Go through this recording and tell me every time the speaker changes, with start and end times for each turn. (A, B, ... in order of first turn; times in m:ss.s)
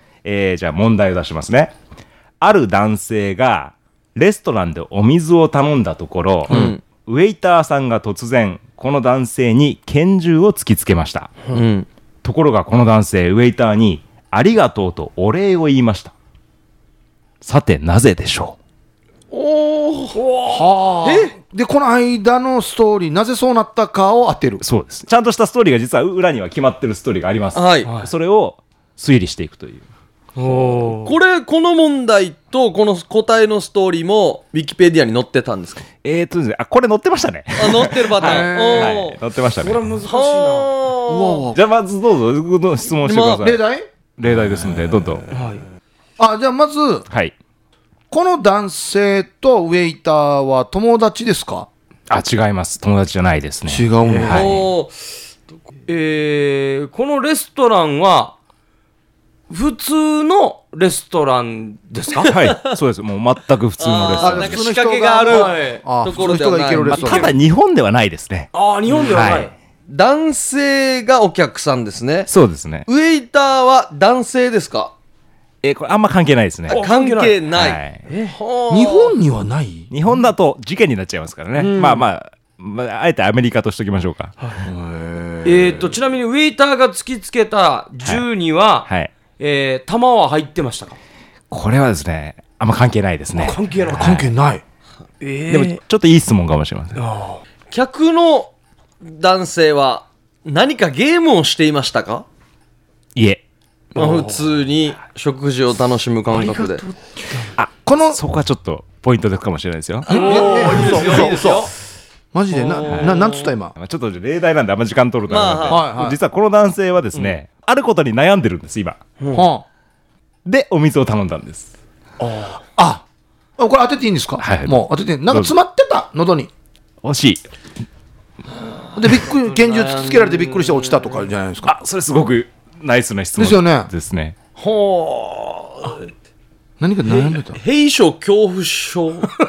0:00.2-0:01.7 A
0:02.4-0:11.4 A
0:06.5-0:06.8 B
0:06.5-0:06.8 C
0:11.5-0:11.9 B
0:12.2-0:16.1 A
0:17.4-0:18.6 A
0:19.3-0:20.2 B
0:20.1-0:20.7 D
0:20.5-0:24.6 C
0:21.0-0:21.4 B
0:24.6-0:29.8 A
0:27.5-0:27.9 B
0:27.9-0:28.1 D
0:30.4-0:31.2 D
0:31.0-0:35.8 B
0:36.0-0:39.8 A
0:37.6-0:39.2 B
0:38.2-0:39.0 C
0:39.6-0:40.7 D
0:40.0-0:41.5 B
0:41.1-0:41.6 C
0:41.5-0:43.6 A
0:43.0-0:43.4 B
0:43.4-0:45.2 C
0:44.2-0:45.3 A
0:45.3-0:45.7 D
0:46.2-0:47.1 C
0:48.1-0:51.7 C
0:52.1-0:54.6 A
0:53.7-0:54.6 C
0:54.0-0:54.5 D
0:54.3-0:55.0 B
0:55.9-0:58.4 D
0:59.5-1:02.3 D
1:02.3-1:04.6 A
1:03.8-1:07.3 B
1:04.2-1:07.3 C
1:05.3-1:05.8 D
1:06.9-1:09.5 A
1:08.5-1:09.5 D
1:09.9-1:12.3 B
1:12.3-1:12.9 A
1:12.8-1:14.9 B
1:15.6-1:16.8 A
1:16.7-1:17.4 D
1:16.7-1:19.1 B
1:17.6-1:18.0 A
1:18.1-1:18.4 D
1:18.7-1:19.9 C
1:19.9-1:24.4 A
1:21.6-1:22.0 D
1:24.4-1:24.7 D
1:24.6-1:25.9 C
1:25.4-1:31.0 D
1:28.8-1:29.1 A
1:31.5-1:34.3 A
1:33.4-1:34.3 D
1:33.9-1:34.6 C
1:35.2-1:35.8 D
1:35.5-1:37.0 A
1:37.0-1:37.4 D
1:37.7-1:42.3 B
1:43.2-1:43.4 A
1:44.0-1:44.5 D
1:44.0-1:46.8 B
1:46.3-1:47.5 D
1:47.6-1:50.1 A
1:47.8-1:48.2 C
1:50.1-1:51.7 B
1:50.1-1:51.6 D
1:50.1-1:51.7 C
1:52.3-1:53.7 C
1:52.5-1:53.5 B
1:52.9-1:53.2 A
1:53.8-1:59.0 A
1:55.3-1:55.9 B
1:55.7-1:56.2 C
1:59.3-1:59.6 C
2:00.5-2:01.7 A
2:02.7-2:03.0 C
2:03.6-2:06.5 C
2:04.4-2:05.5 A
2:07.0-2:07.4 A
2:09.0-2:11.7 C
2:09.1-2:11.3 B
2:11.6-2:14.4 A
2:13.4-2:13.9 C
2:14.6-2:16.1 B
2:16.8-2:17.6 C
2:17.1-2:19.3 B